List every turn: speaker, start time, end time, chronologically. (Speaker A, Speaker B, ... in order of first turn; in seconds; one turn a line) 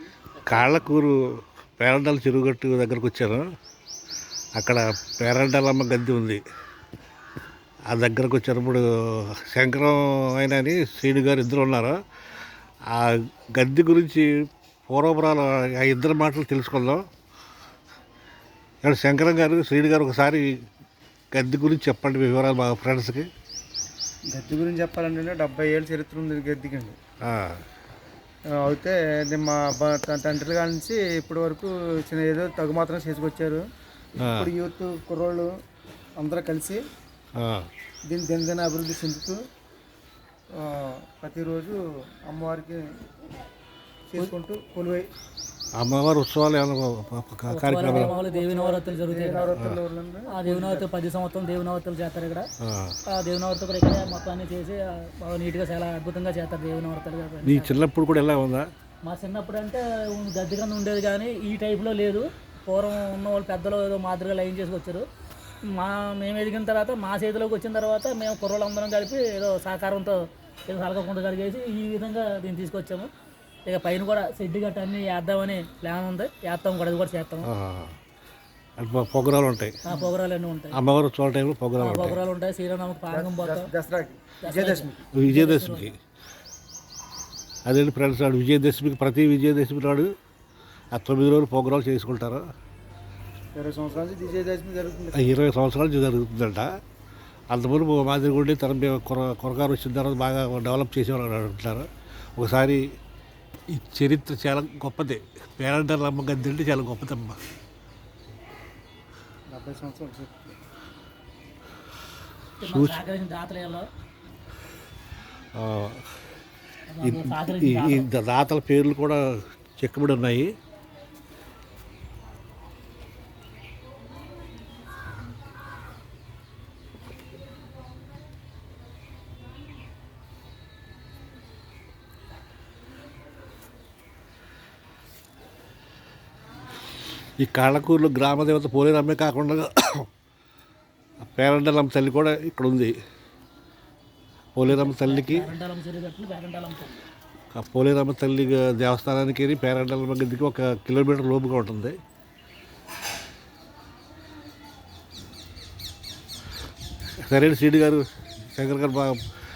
Speaker A: 0.3-0.9
Speaker B: 0.5-3.5
Speaker B: 4.6-6.4
Speaker B: 7.9-12.0
Speaker B: 12.9-14.3
Speaker B: 14.9-17.0
Speaker B: 18.8-20.5
Speaker B: 21.3-23.3
Speaker C: 24.3-27.0
Speaker B: 27.2-27.6
Speaker C: 28.6-33.6
Speaker B: 34.2-34.5
Speaker C: 34.2-35.5
Speaker C: 36.2-36.8
Speaker B: 37.4-37.7
Speaker C: 38.1-39.4
Speaker C: 40.6-42.8
Speaker C: 44.1-45.1
Speaker B: 45.8-48.1
Speaker A: 47.5-49.5
Speaker C: 47.8-50.9
Speaker A: 50.3-52.4
Speaker B: 52.6-53.0
Speaker A: 53.1-57.8
Speaker B: 57.4-58.7
Speaker A: 59.0-65.0
Speaker A: 65.7-70.2
Speaker A: 70.7-73.1
Speaker A: 73.7-77.5
Speaker B: 77.4-77.9
Speaker B: 78.8-79.7
Speaker A: 79.8-80.8
Speaker B: 80.7-82.2
Speaker A: 81.8-83.7
Speaker C: 83.1-85.1
Speaker A: 84.4-85.9
Speaker B: 85.1-85.9
Speaker B: 87.6-90.1
Speaker B: 90.9-92.4
Speaker C: 93.5-95.3
Speaker B: 95.1-96.7
Speaker B: 97.5-102.8
Speaker B: 103.7-107.4
Speaker C: 109.5-110.5
Speaker A: 112.6-113.8
Speaker B: 112.7-113.0
Speaker B: 115.5-116.0
Speaker A: 116.9-118.1
Speaker B: 117.0-120.5
Speaker B: 137.4-140.1
Speaker B: 141.2-142.9
Speaker B: 144.5-145.5
Speaker A: 144.7-147.0
Speaker B: 147.5-151.9
Speaker B: 157.2-159.2